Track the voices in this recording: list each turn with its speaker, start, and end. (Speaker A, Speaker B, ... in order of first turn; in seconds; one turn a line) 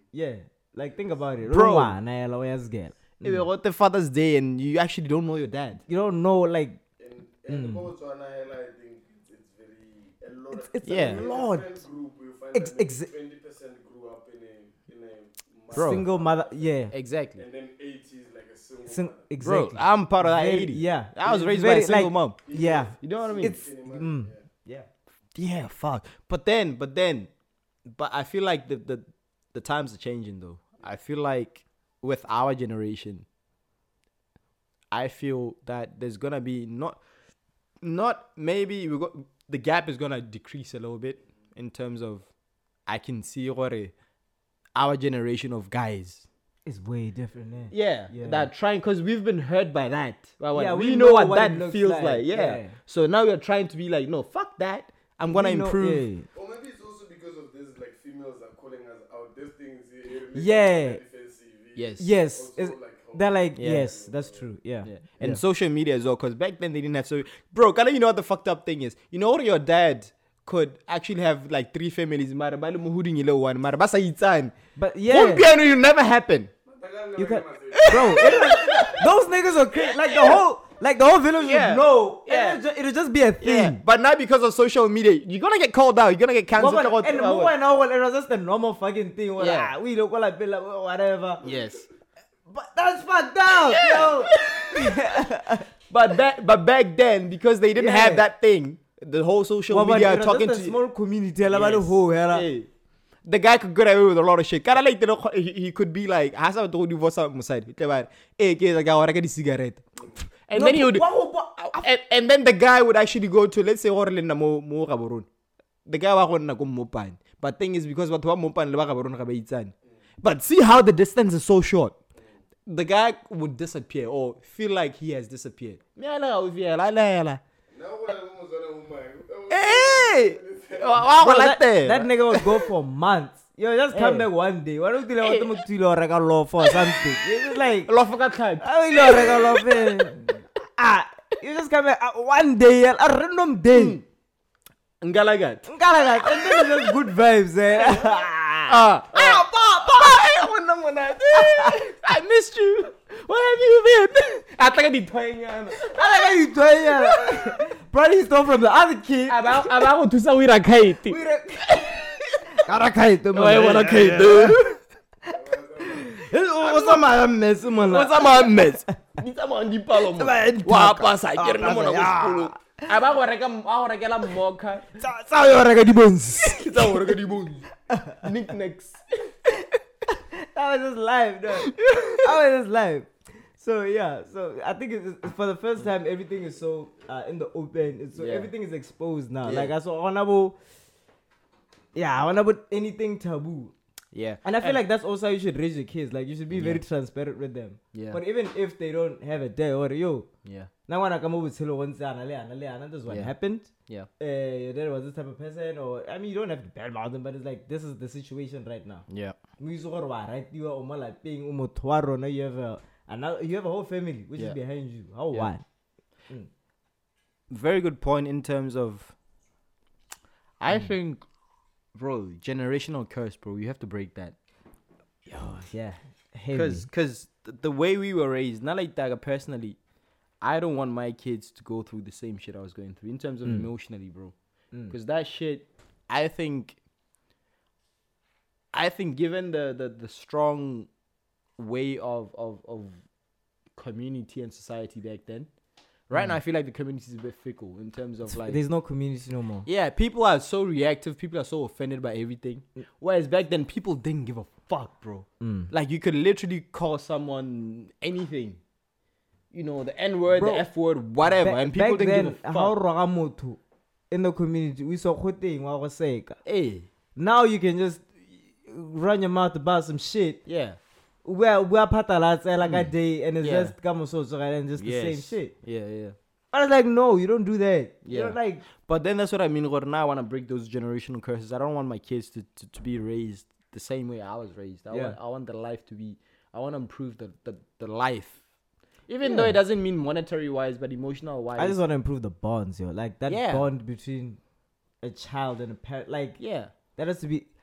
Speaker A: 0.1-3.5
Speaker B: 1.5-2.0
Speaker B: 3.2-5.8
Speaker A: 5.9-6.8
Speaker C: 7.0-16.8
Speaker A: 7.5-7.9
Speaker A: 10.5-11.8
Speaker B: 10.8-11.2
Speaker A: 12.5-13.1
Speaker B: 15.7-16.0
Speaker A: 15.7-16.9
Speaker B: 16.9-17.4
Speaker C: 17.4-19.3
Speaker A: 18.9-24.9
Speaker B: 19.4-22.5
Speaker C: 22.4-24.4
Speaker B: 23.0-23.6
Speaker B: 25.4-27.3
Speaker B: 27.9-33.2
Speaker B: 34.9-37.0
Speaker B: 37.8-42.3
Speaker B: 42.9-43.9
Speaker B: 44.7-46.3
Speaker A: 46.7-48.5
Speaker B: 47.7-56.0
Speaker A: 50.5-52.8
Speaker A: 55.3-56.3
Speaker C: 56.3-64.5
Speaker A: 60.3-61.0
Speaker B: 61.7-62.1
Speaker A: 62.0-65.4
Speaker B: 63.6-63.9
Speaker B: 64.8-74.5
Speaker A: 74.8-75.5
Speaker B: 75.1-76.5
Speaker C: 76.7-79.1
Speaker A: 77.2-83.8
Speaker B: 77.7-79.0
Speaker B: 79.8-80.4
Speaker B: 81.4-82.6
Speaker B: 83.4-87.5
Speaker A: 86.5-91.4
Speaker B: 89.4-89.7
Speaker B: 91.4-91.8
Speaker A: 92.5-95.7
Speaker B: 93.7-95.0
Speaker B: 95.9-100.8
Speaker A: 97.7-98.2
Speaker A: 99.7-102.5
Speaker B: 101.5-102.7
Speaker B: 103.2-109.9
Speaker B: 110.5-111.0
Speaker A: 110.5-111.8
Speaker B: 111.6-115.3
Speaker B: 115.9-122.0
Speaker B: 122.7-127.4
Speaker C: 127.7-131.1
Speaker B: 129.5-132.6
Speaker A: 131.2-137.9
Speaker B: 133.9-134.3
Speaker B: 135.2-135.5
Speaker B: 136.7-137.0
Speaker B: 137.8-139.9
Speaker A: 138.6-144.0
Speaker B: 143.7-144.1
Speaker B: 145.0-145.7
Speaker A: 145.7-149.8
Speaker B: 146.2-146.9
Speaker B: 148.7-155.8
Speaker A: 151.3-151.8
Speaker A: 155.9-159.9
Speaker B: 157.1-157.4
Speaker B: 159.3-161.2
Speaker A: 161.1-161.9
Speaker B: 161.8-162.5
Speaker A: 162.6-164.7
Speaker B: 163.3-164.6
Speaker C: 165.3-166.3
Speaker A: 166.1-168.8
Speaker B: 166.3-174.9
Speaker A: 170.1-172.9
Speaker A: 175.0-177.1
Speaker B: 176.4-177.7
Speaker A: 177.9-178.2
Speaker B: 178.2-179.3
Speaker A: 180.1-190.6
Speaker B: 181.7-182.3
Speaker B: 188.1-188.5
Speaker B: 189.4-189.7
Speaker A: 191.9-193.7
Speaker B: 194.1-194.8
Speaker A: 194.4-200.3
Speaker B: 196.5-196.8
Speaker B: 197.9-198.2
Speaker B: 200.4-200.7
Speaker A: 200.9-209.1
Speaker B: 203.1-203.3
Speaker B: 209.1-209.4
Speaker A: 209.6-215.6
Speaker B: 217.5-219.1
Speaker B: 220.6-221.2
Speaker B: 221.9-224.4
Speaker A: 225.3-226.9
Speaker B: 226.5-229.8
Speaker B: 230.4-234.3
Speaker B: 234.9-236.8
Speaker B: 238.7-240.9
Speaker B: 241.6-243.0
Speaker B: 243.7-245.5
Speaker B: 246.1-248.6
Speaker A: 248.3-249.7
Speaker B: 249.7-258.6
Speaker A: 255.4-255.7
Speaker B: 259.5-262.7
Speaker A: 260.3-260.7
Speaker A: 261.2-263.6
Speaker A: 264.1-266.4
Speaker B: 266.4-266.9
Speaker A: 267.2-268.1
Speaker A: 268.6-270.4
Speaker B: 270.4-270.8
Speaker A: 271.2-275.5
Speaker B: 272.6-273.8
Speaker B: 274.8-276.2
Speaker A: 276.5-278.6
Speaker B: 278.0-288.4
Speaker A: 284.9-285.2
Speaker B: 289.1-291.8
Speaker A: 289.2-289.6
Speaker A: 291.6-294.4
Speaker B: 293.3-293.7
Speaker A: 295.0-296.4
Speaker B: 296.4-296.7
Speaker A: 296.9-297.5